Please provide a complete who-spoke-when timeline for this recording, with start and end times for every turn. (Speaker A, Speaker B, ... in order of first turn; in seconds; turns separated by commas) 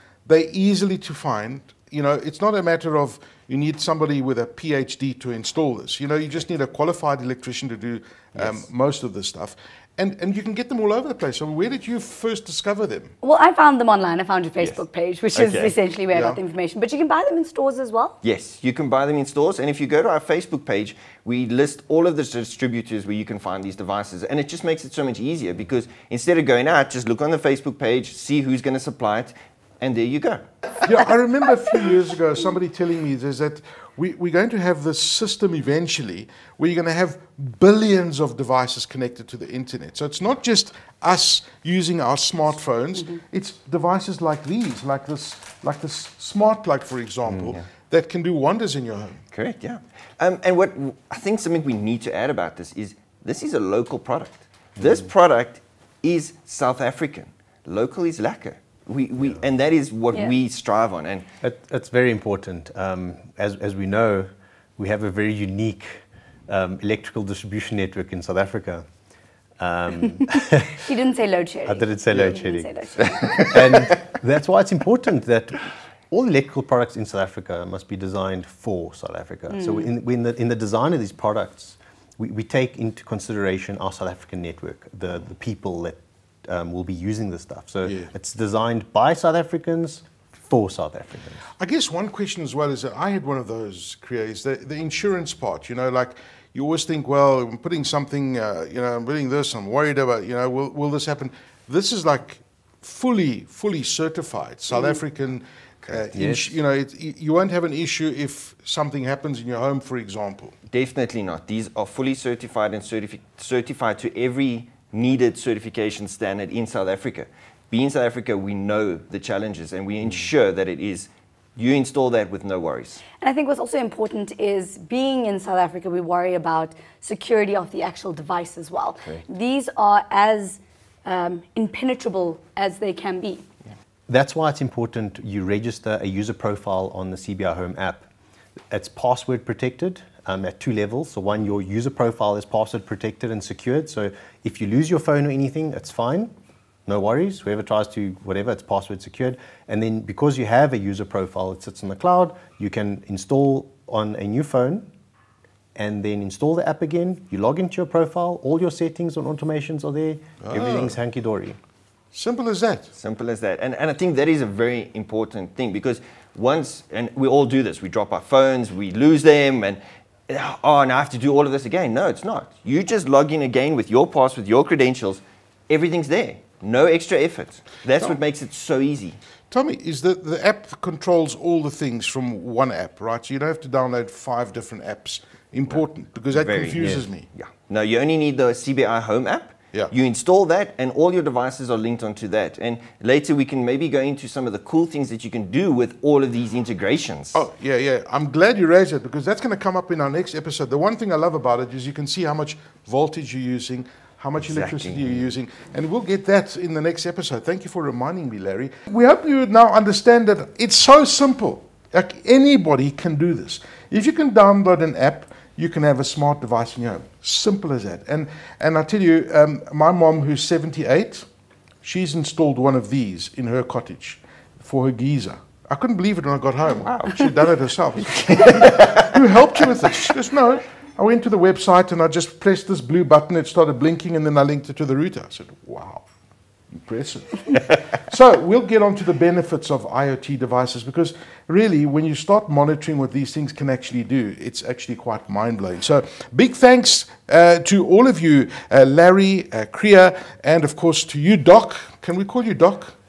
Speaker A: 0.2-13.1, Speaker B: 8.3-8.7, Speaker C: 13.2-18.2, Speaker B: 15.3-15.8, Speaker A: 16.1-16.4, Speaker B: 18.2-30.4, Speaker A: 30.8-49.2, Speaker B: 49.3-61.3, Speaker D: 61.4-68.8, Speaker D: 69.6-70.8, Speaker C: 70.8-73.9, Speaker D: 71.7-72.8, Speaker D: 73.3-91.5, Speaker C: 79.5-79.9, Speaker A: 87.8-88.1, Speaker A: 91.6-110.5, Speaker D: 106.1-106.6, Speaker B: 110.7-123.0, Speaker C: 123.2-133.4, Speaker D: 134.1-138.1, Speaker D: 138.7-146.3, Speaker D: 146.9-154.9, Speaker D: 155.8-161.6, Speaker A: 160.4-161.0, Speaker A: 162.1-162.9, Speaker B: 163.0-179.2, Speaker A: 179.5-187.3, Speaker B: 186.3-197.4, Speaker D: 186.8-187.1, Speaker A: 197.3-221.3, Speaker B: 204.4-205.3, Speaker A: 221.8-236.1, Speaker B: 226.8-227.3, Speaker B: 228.1-230.0, Speaker A: 236.7-252.9